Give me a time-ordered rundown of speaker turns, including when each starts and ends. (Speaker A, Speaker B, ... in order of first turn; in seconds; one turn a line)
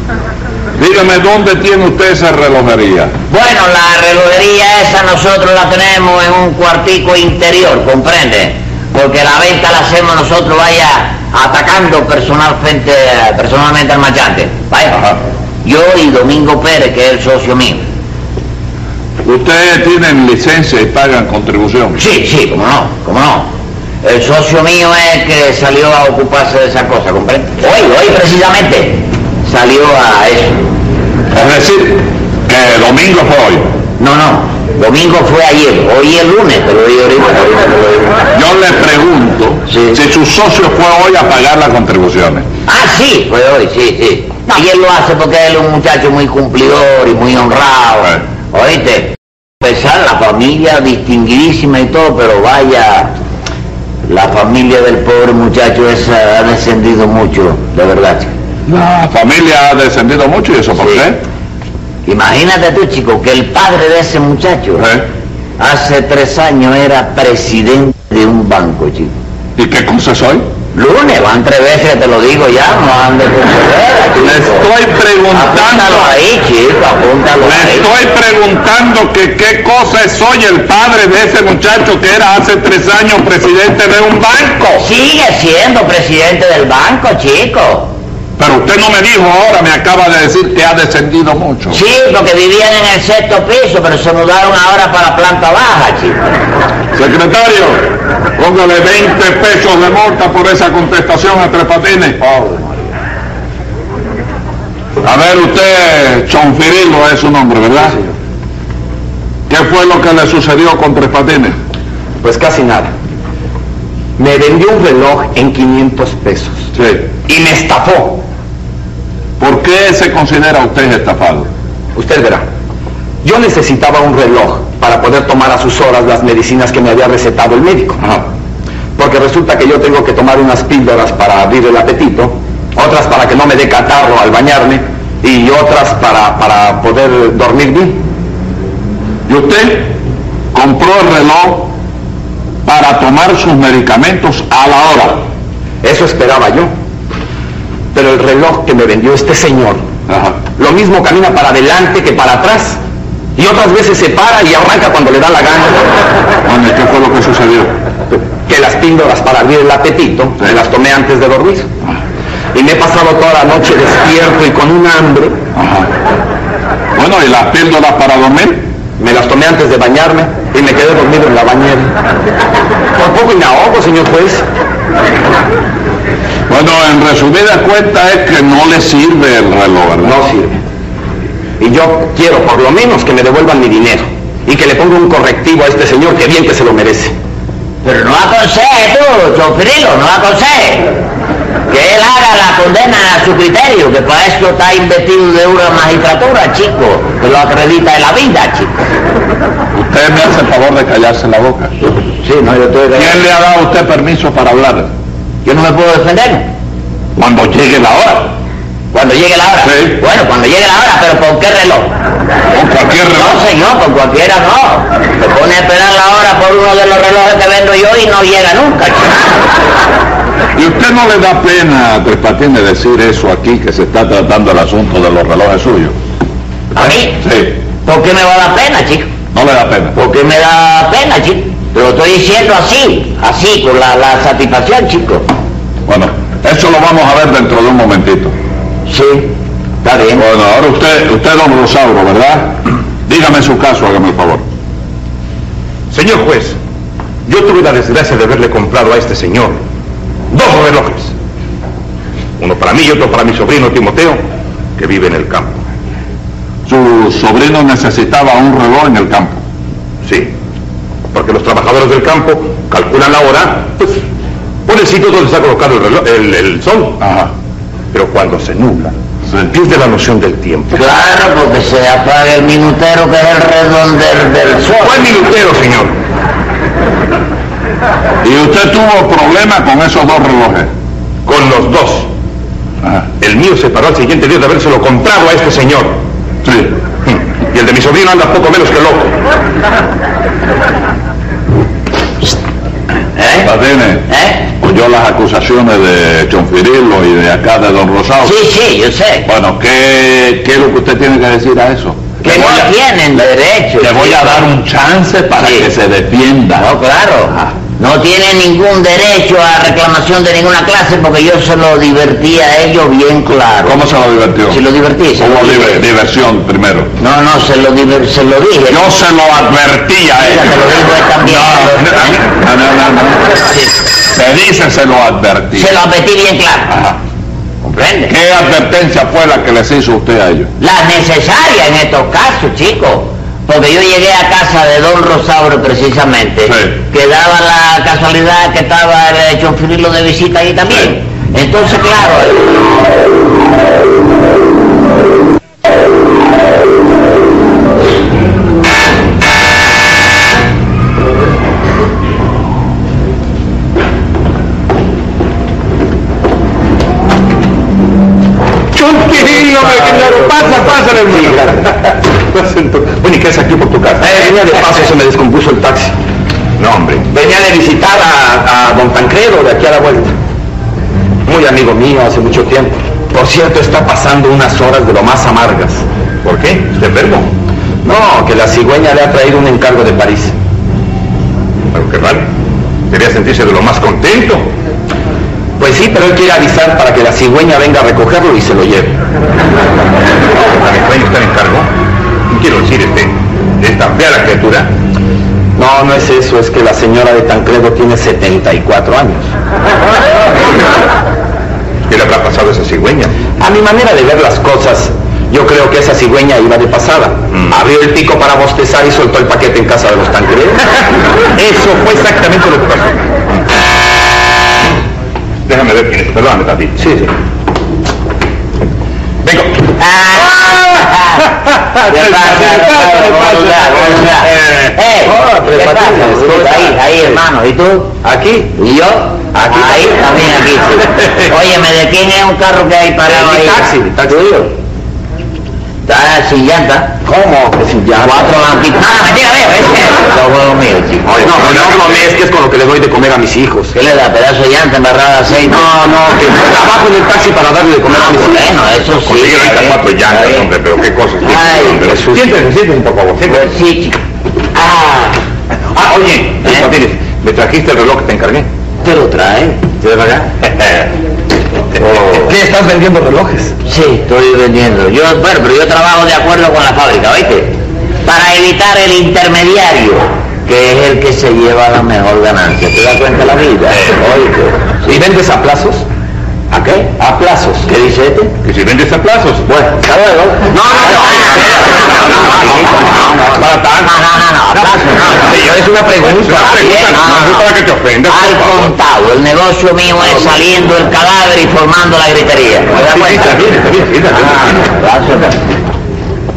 Speaker A: 0.8-3.1
Speaker B: 3.3-15.0
Speaker A: 14.9-15.2
Speaker B: 15.6-17.8
Speaker A: 19.2-22.0
Speaker B: 21.9-23.5
Speaker B: 24.0-30.7
Speaker A: 31.3-33.7
Speaker B: 34.0-38.2
Speaker A: 38.3-42.5
Speaker B: 39.7-40.0
Speaker B: 42.7-53.1
Speaker B: 54.0-58.3
Speaker A: 58.6-61.2
Speaker B: 62.0-64.8
Speaker A: 64.8-65.0
Speaker B: 65.6-69.1
Speaker A: 69.5-70.5
Speaker B: 70.7-74.7
Speaker A: 74.2-76.1
Speaker B: 75.3-77.9
Speaker A: 77.4-84.8
Speaker B: 84.8-87.9
Speaker A: 88.4-91.8
Speaker B: 91.7-96.4
Speaker A: 96.9-102.2
Speaker C: 102.3-102.6
Speaker A: 105.0-108.0
Speaker A: 109.5-111.6
Speaker C: 112.2-112.9
Speaker C: 114.2-116.7
Speaker A: 116.7-117.1
Speaker C: 117.2-118.2
Speaker A: 119.4-121.5
Speaker C: 121.9-122.4
Speaker C: 123.2-128.0
Speaker C: 128.9-138.0
Speaker A: 139.2-140.0
Speaker A: 140.5-141.7
Speaker A: 142.6-145.2
Speaker C: 145.8-146.7
Speaker C: 147.9-149.8
Speaker A: 150.1-150.4
Speaker C: 150.5-152.8
Speaker C: 153.3-156.0
Speaker A: 156.4-157.7
Speaker C: 158.1-161.7
Speaker C: 162.5-165.4
Speaker A: 165.5-165.9
Speaker A: 166.9-168.7
Speaker C: 169.0-171.9
Speaker C: 172.9-174.4
Speaker A: 176.5-180.2
Speaker C: 180.0-180.6
Speaker C: 181.6-187.1
Speaker B: 187.8-191.0
Speaker B: 191.7-198.8
Speaker A: 199.7-201.7
Speaker B: 202.2-203.2
Speaker A: 202.9-204.9
Speaker B: 205.4-206.5
Speaker A: 207.2-208.3
Speaker B: 208.9-211.9
Speaker A: 209.6-210.0
Speaker A: 212.5-213.4
Speaker B: 213.1-219.3
Speaker A: 220.5-225.9
Speaker B: 226.7-227.2
Speaker A: 226.8-227.5
Speaker B: 227.8-229.1
Speaker A: 229.3-229.9
Speaker B: 229.9-235.3
Speaker A: 235.9-238.3
Speaker B: 238.9-240.2
Speaker A: 240.1-244.4
Speaker D: 245.9-246.6
Speaker D: 247.2-249.6
Speaker D: 250.3-251.1
Speaker D: 252.4-254.2
Speaker D: 254.8-255.6
Speaker A: 256.6-259.4
Speaker D: 260.0-260.3
Speaker D: 261.1-264.0
Speaker D: 264.6-267.0
Speaker A: 267.0-267.3
Speaker D: 267.9-268.9
Speaker D: 269.4-270.8
Speaker B: 270.7-275.1
Speaker D: 274.8-275.9
Speaker A: 278.2-280.7
Speaker D: 281.2-282.1
Speaker D: 283.2-286.0
Speaker A: 286.4-286.7
Speaker D: 287.1-289.2
Speaker B: 293.2-293.5
Speaker A: 293.4-298.4
Speaker B: 294.1-294.4
Speaker B: 298.2-299.3
Speaker A: 299.2-302.7
Speaker B: 302.2-304.4
Speaker A: 303.8-306.7
Speaker B: 305.4-305.7
Speaker B: 306.6-313.8
Speaker A: 313.6-314.6
Speaker B: 314.5-315.8
Speaker A: 315.2-316.9
Speaker B: 317.0-318.9
Speaker A: 318.7-320.7
Speaker B: 320.2-322.2
Speaker A: 321.2-323.4
Speaker A: 324.1-325.7
Speaker B: 325.5-326.8
Speaker A: 326.7-326.9
Speaker B: 327.6-328.1
Speaker A: 328.1-330.5
Speaker B: 330.6-342.4
Speaker A: 336.4-336.7
Speaker D: 358.7-364.4
Speaker C: 359.3-361.6
Speaker C: 364.0-365.9
Speaker D: 366.6-367.1
Speaker C: 367.1-370.1
Speaker C: 371.2-375.8
Speaker D: 376.2-377.3
Speaker C: 377.8-380.3
Speaker D: 381.7-382.3
Speaker D: 382.9-384.5
Speaker C: 385.6-389.0
Speaker D: 390.3-391.7
Speaker D: 392.3-394.7
Speaker C: 395.6-399.3
Speaker D: 401.9-403.2
Speaker C: 403.4-410.6
Speaker D: 407.3-407.6
Speaker D: 411.3-413.1
Speaker D: 415.4-416.9
Speaker C: 416.8-417.1
Speaker D: 419.2-419.6
Speaker B: 419.8-421.3
Speaker B: 421.8-428.0
Speaker C: 425.0-426.8
Speaker C: 428.0-428.5
Speaker B: 428.5-434.4
Speaker C: 429.4-429.8
Speaker C: 433.1-434.5
Speaker B: 435.8-437.0
Speaker C: 437.0-438.3
Speaker B: 438.0-441.3
Speaker C: 441.1-443.7
Speaker D: 441.1-442.0
Speaker B: 443.7-445.7
Speaker C: 445.6-448.4
Speaker B: 447.9-450.5
Speaker D: 449.0-453.4
Speaker B: 451.2-452.0
Speaker C: 451.7-452.4
Speaker B: 453.2-454.0
Speaker B: 454.6-455.1
Speaker D: 455.7-458.5
Speaker B: 458.8-459.6
Speaker D: 459.9-460.9
Speaker C: 461.8-463.5
Speaker B: 463.6-475.0
Speaker C: 474.9-475.8
Speaker C: 476.5-477.7
Speaker B: 477.6-478.3
Speaker D: 478.4-479.5
Speaker B: 479.5-483.2
Speaker C: 479.7-481.2
Speaker D: 483.2-483.9
Speaker B: 483.8-485.5
Speaker D: 484.9-488.7
Speaker C: 485.1-486.4
Speaker B: 486.0-487.5
Speaker B: 488.1-493.4
Speaker D: 492.8-494.5
Speaker B: 494.1-495.4